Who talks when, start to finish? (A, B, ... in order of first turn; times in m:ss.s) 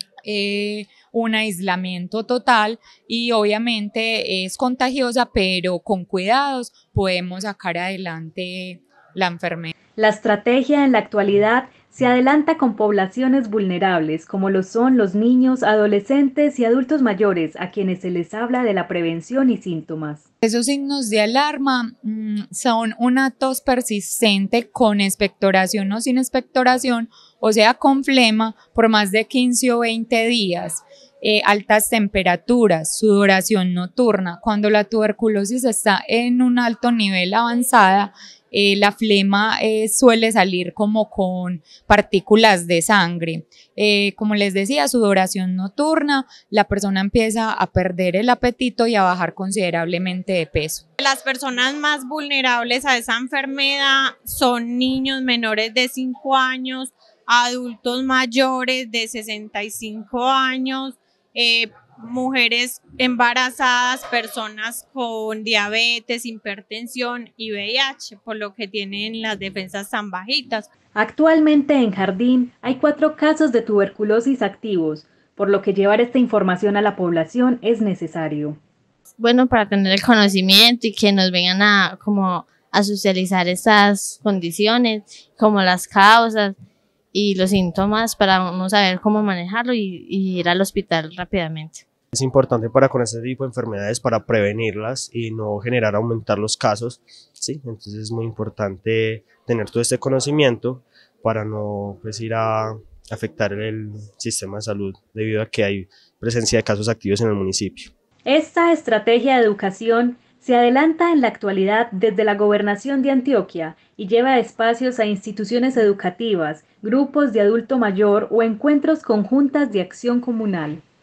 0:00.2-0:09.7 A
0:10.0-0:20.2 B
0:20.4-0:50.8 A
0:51.0-1:10.7 C
1:10.9-1:18.6 B
1:19.2-1:26.6 D
1:27.1-1:31.8 D
1:32.1-1:47.9 E
1:48.2-2:00.8 B